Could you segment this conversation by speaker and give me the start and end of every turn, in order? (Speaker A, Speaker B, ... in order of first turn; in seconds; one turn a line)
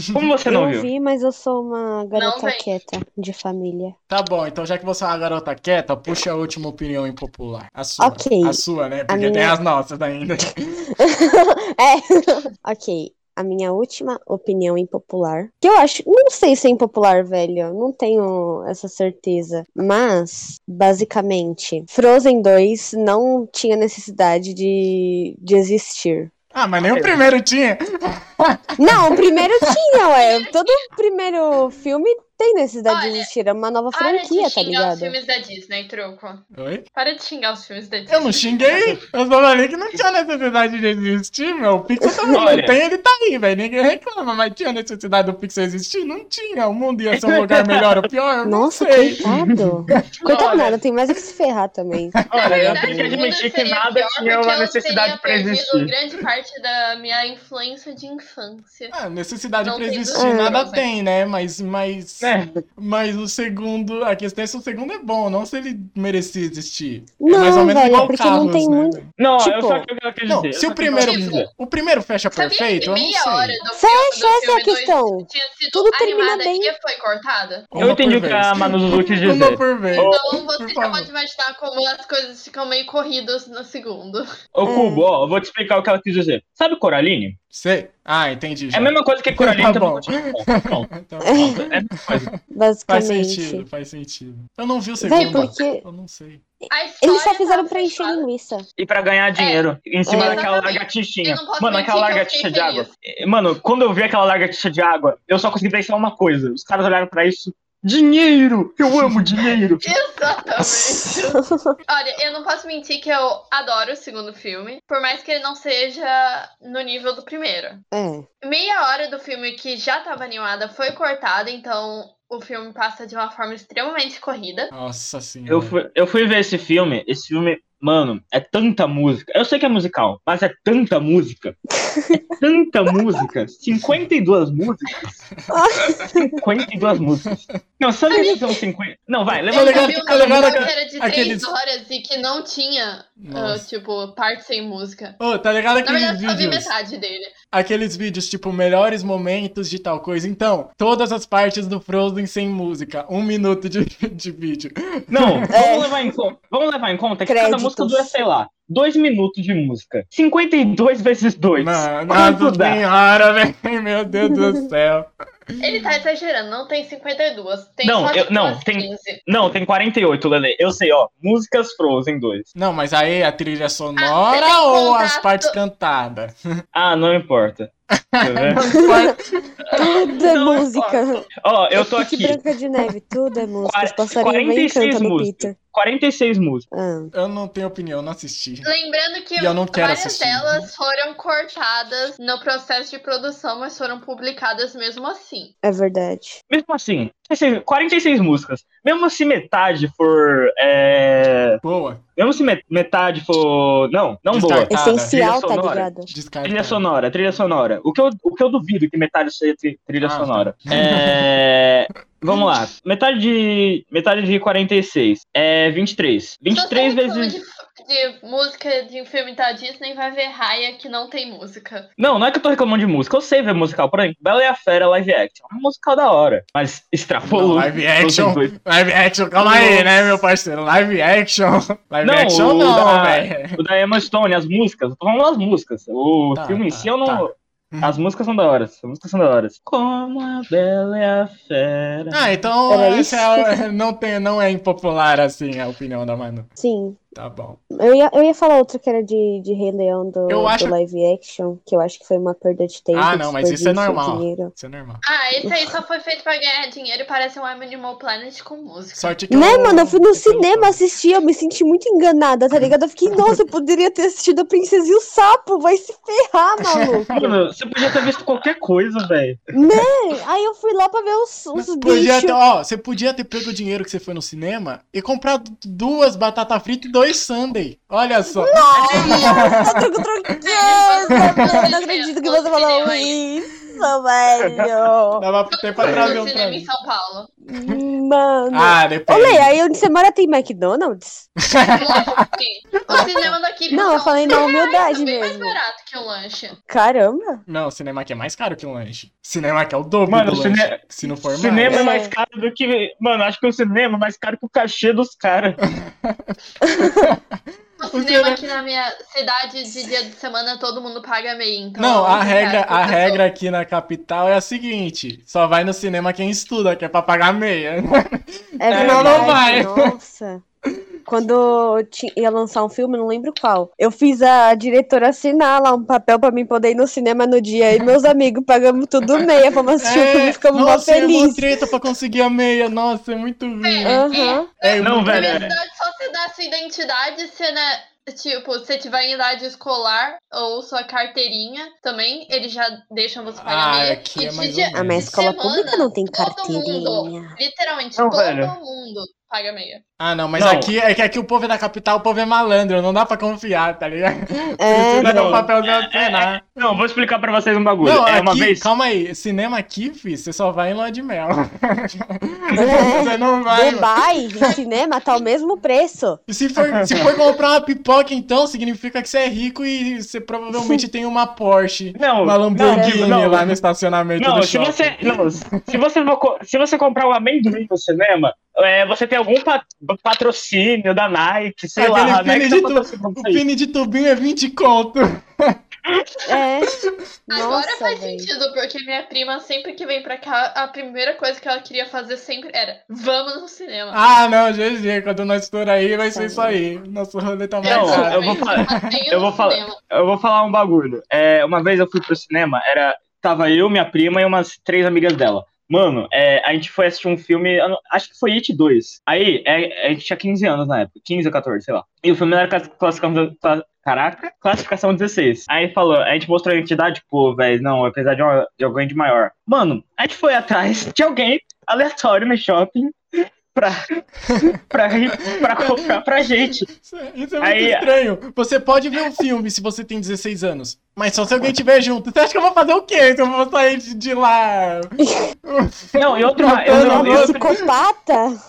Speaker A: 0.1-0.9
Speaker B: 0.4-3.9
Speaker C: 2.1-2.7
Speaker D: 4.1-10.9
Speaker B: 8.0-9.5
Speaker B: 11.0-26.3
Speaker D: 26.5-29.7
Speaker A: 26.8-27.2
Speaker B: 28.8-35.1
Speaker C: 30.1-30.8
Speaker C: 32.9-33.3
Speaker C: 33.9-38.6
Speaker D: 36.5-36.8
Speaker D: 38.1-49.3
Speaker B: 42.0-42.4
Speaker A: 42.3-42.8
Speaker A: 47.1-48.0
Speaker B: 48.4-52.2
Speaker A: 49.2-49.7
Speaker A: 50.2-50.8
Speaker D: 52.2-53.2
Speaker A: 52.3-55.9
Speaker C: 52.4-58.9
Speaker D: 58.9-69.1
Speaker C: 59.6-60.9
Speaker B: 60.1-60.6
Speaker A: 62.2-62.6
Speaker B: 67.2-69.9
Speaker A: 69.2-71.5
Speaker D: 70.3-73.6
Speaker C: 70.9-71.5
Speaker C: 72.3-77.7
Speaker B: 73.7-76.7
Speaker D: 77.7-81.1
Speaker A: 77.8-80.2
Speaker C: 79.9-84.2
Speaker A: 84.5-87.4
Speaker B: 84.7-85.0
Speaker D: 87.5-96.4
Speaker A: 88.7-92.3
Speaker B: 91.2-91.6
Speaker B: 92.5-93.6
Speaker B: 95.0-95.8
Speaker C: 95.1-95.5
Speaker C: 96.7-98.2
Speaker B: 97.0-98.6
Speaker A: 98.8-109.8
Speaker C: 99.4-102.9
Speaker B: 100.1-100.4
Speaker C: 109.8-117.8
Speaker B: 110.6-111.7
Speaker B: 117.9-118.2
Speaker C: 118.4-124.7
Speaker D: 124.7-125.7
Speaker A: 125.5-131.6
Speaker B: 131.8-132.2
Speaker A: 132.2-135.2
Speaker B: 135.5-136.3
Speaker A: 136.4-140.7
Speaker C: 138.1-138.5
Speaker D: 139.4-141.5
Speaker C: 139.5-145.2
Speaker D: 143.2-143.6
Speaker D: 145.2-146.7
Speaker C: 145.8-147.3
Speaker D: 147.5-155.5
Speaker A: 155.1-162.8
Speaker B: 155.5-156.1
Speaker B: 157.2-158.1
Speaker D: 161.6-165.1
Speaker B: 164.2-164.6
Speaker C: 165.6-169.2
Speaker A: 167.8-172.5
Speaker D: 172.5-176.4
Speaker C: 174.0-175.6
Speaker A: 176.7-177.7
Speaker D: 178.1-179.2
Speaker A: 178.2-179.0
Speaker B: 178.7-179.2
Speaker A: 179.7-182.4
Speaker B: 179.7-185.5
Speaker A: 183.6-186.6
Speaker B: 186.7-187.1
Speaker D: 187.1-188.7
Speaker C: 188.6-195.5
Speaker D: 189.4-190.7
Speaker B: 195.6-196.4
Speaker A: 196.5-201.6
Speaker D: 201.6-202.0
Speaker A: 202.2-205.9
Speaker D: 204.3-205.2
Speaker B: 204.7-206.1
Speaker D: 206.1-206.8
Speaker A: 206.4-217.4
Speaker D: 210.0-211.3
Speaker C: 216.5-221.9
Speaker A: 222.0-228.5
Speaker D: 227.2-233.6
Speaker A: 229.4-230.2
Speaker A: 232.0-242.2
Speaker D: 236.3-238.0
Speaker D: 242.1-246.5
Speaker B: 242.7-243.5
Speaker B: 246.6-247.0
Speaker D: 247.1-247.6
Speaker B: 247.7-254.5
Speaker D: 250.3-250.7
Speaker D: 252.9-255.0
Speaker C: 255.0-259.2
Speaker D: 258.9-260.8
Speaker B: 259.3-267.1
Speaker D: 266.7-267.4
Speaker A: 267.1-269.4
Speaker B: 269.5-272.4
Speaker D: 271.7-279.9
Speaker B: 278.3-285.2
Speaker A: 278.7-279.5
Speaker C: 280.4-283.2
Speaker D: 281.2-281.6
Speaker D: 285.2-286.7
Speaker C: 285.5-287.3
Speaker B: 287.5-291.3
Speaker D: 288.5-289.5
Speaker D: 291.5-292.3
Speaker C: 291.7-296.6
Speaker B: 292.9-295.6
Speaker B: 296.7-297.4
Speaker D: 297.4-301.8
Speaker A: 300.1-305.6
Speaker B: 301.7-302.1
Speaker D: 305.7-307.2
Speaker B: 306.6-306.9
Speaker C: 307.8-313.2
Speaker D: 307.9-308.4
Speaker D: 311.8-319.9
Speaker B: 318.6-320.4
Speaker A: 318.7-319.4
Speaker B: 321.1-331.4
Speaker D: 329.8-335.4
Speaker C: 333.6-349.8
Speaker B: 333.8-334.5
Speaker A: 334.8-335.6
Speaker D: 343.4-345.1
Speaker B: 344.7-347.4
Speaker A: 348.0-348.5
Speaker D: 350.0-356.4
Speaker A: 350.4-350.7
Speaker B: 354.6-355.5
Speaker A: 355.0-358.7
Speaker D: 357.8-363.9
Speaker B: 362.6-366.2
Speaker D: 366.3-375.8
Speaker A: 366.6-367.2
Speaker B: 370.5-370.8
Speaker A: 371.9-373.5
Speaker B: 372.6-373.1
Speaker A: 374.2-383.4
Speaker D: 381.8-385.6
Speaker B: 386.2-386.7
Speaker B: 387.3-388.3
Speaker C: 387.3-394.0
Speaker D: 393.9-399.0
Speaker B: 396.0-396.6
Speaker C: 397.6-399.8
Speaker A: 397.6-423.8
Speaker A: 424.4-426.7
Speaker D: 425.2-425.8
Speaker D: 426.7-437.7
Speaker A: 427.4-427.9
Speaker A: 435.9-437.6
Speaker B: 436.6-438.4